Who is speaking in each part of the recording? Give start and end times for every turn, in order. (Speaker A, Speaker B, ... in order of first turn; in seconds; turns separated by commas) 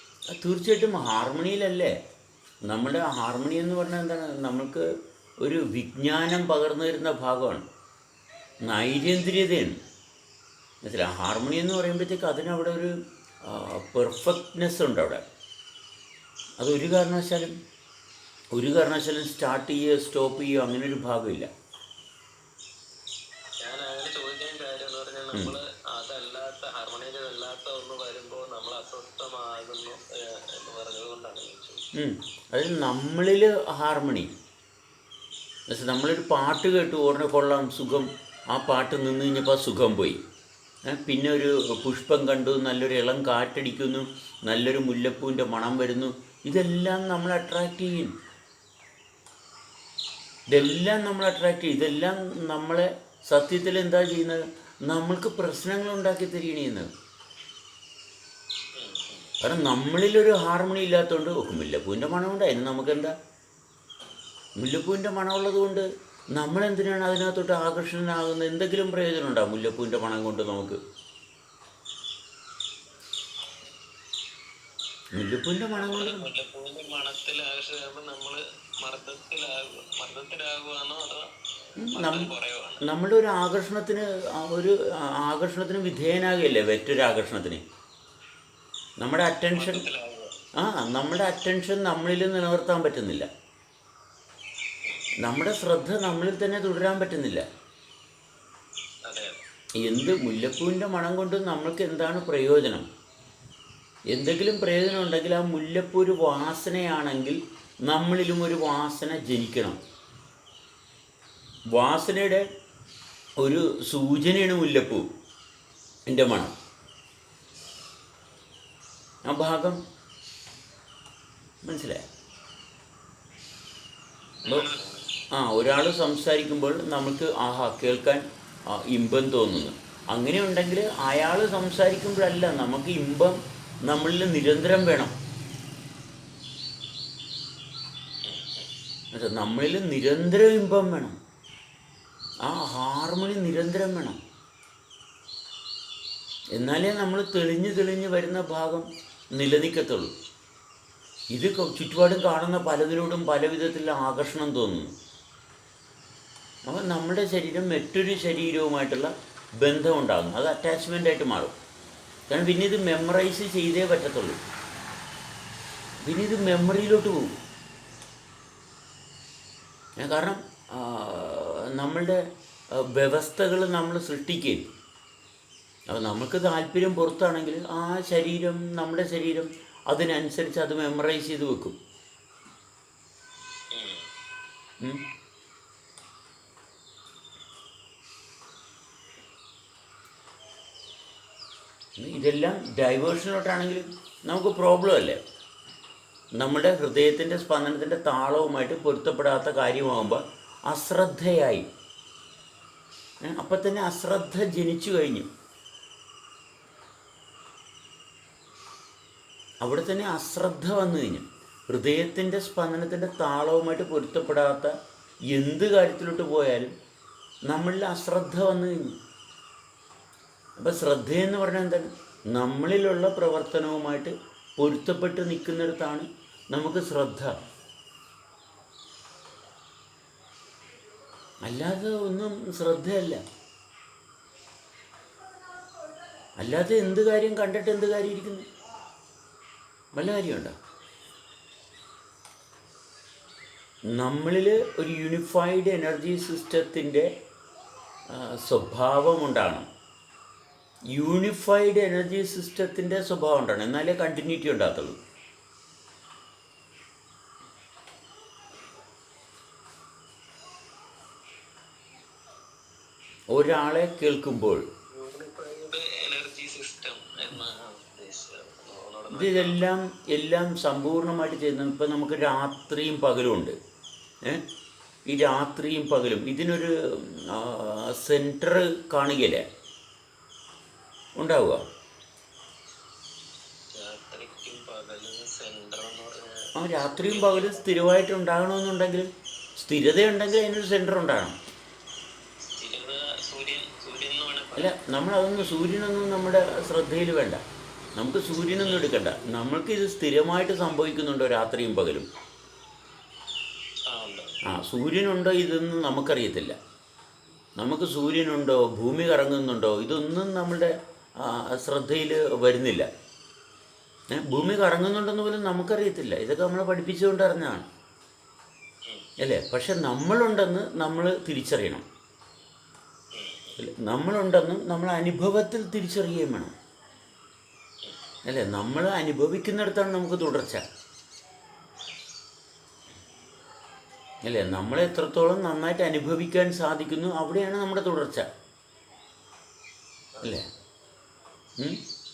Speaker A: 0.4-1.9, Speaker A: 2.7-4.8, Speaker A: 5.4-7.6, Speaker A: 8.6-9.8, Speaker A: 10.8-12.9, Speaker A: 13.5-15.2, Speaker A: 16.6-17.5, Speaker A: 18.5-21.5, Speaker B: 23.6-31.8, Speaker A: 32.0-34.3, Speaker A: 35.7-40.2, Speaker A: 40.9-48.1, Speaker A: 50.5-56.9, Speaker B: 58.8-59.3, Speaker A: 59.4-63.1, Speaker A: 64.6-70.8, Speaker A: 75.1-76.3, Speaker B: 75.8-81.3, Speaker A: 81.8-82.3, Speaker B: 81.8-82.9, Speaker A: 82.8-87.6, Speaker A: 89.0-89.8, Speaker B: 89.5-90.3, Speaker A: 90.6-93.3, Speaker A: 95.2-97.4, Speaker B: 99.1-99.4, Speaker A: 99.8-102.8, Speaker A: 104.1-109.8, Speaker A: 111.7-112.4, Speaker A: 113.4-115.0, Speaker A: 116.1-116.5, Speaker A: 119.2-119.8, Speaker A: 121.6-122.0, Speaker B: 124.4-125.1, Speaker A: 125.3-128.2, Speaker A: 128.7-135.1, Speaker B: 138.2-138.7, Speaker A: 139.1-141.1, Speaker A: 142.4-144.2, Speaker A: 146.5-150.1, Speaker A: 151.3-154.9, Speaker A: 156.7-161.5, Speaker A: 162.3-164.4, Speaker A: 166.0-167.3, Speaker A: 170.0-172.2, Speaker A: 172.8-174.6, Speaker A: 175.9-181.8, Speaker B: 183.7-184.1, Speaker A: 192.0-195.2, Speaker A: 196.4-201.6, Speaker A: 203.2-205.3, Speaker A: 209.6-214.7, Speaker A: 215.3-216.7, Speaker A: 217.5-218.9, Speaker A: 220.6-227.3, Speaker A: 231.4-233.2, Speaker A: 236.4-238.4, Speaker A: 239.9-240.5, Speaker A: 243.9-247.1, Speaker A: 248.1-249.7, Speaker A: 250.9-255.0, Speaker A: 263.3-264.6, Speaker B: 264.9-269.6, Speaker A: 269.1-273.5, Speaker A: 275.1-279.4, Speaker A: 281.2-281.6, Speaker B: 283.7-287.6, Speaker A: 286.6-289.1, Speaker A: 289.6-291.3, Speaker B: 292.5-294.7, Speaker A: 294.6-297.4, Speaker A: 297.9-302.1, Speaker B: 298.5-299.1, Speaker B: 303.9-304.4, Speaker A: 304.5-306.5, Speaker A: 307.6-312.9, Speaker A: 314.1-317.6, Speaker A: 319.2-321.8, Speaker B: 323.1-323.6, Speaker A: 323.6-326.5, Speaker A: 328.2-330.6, Speaker A: 334.2-338.2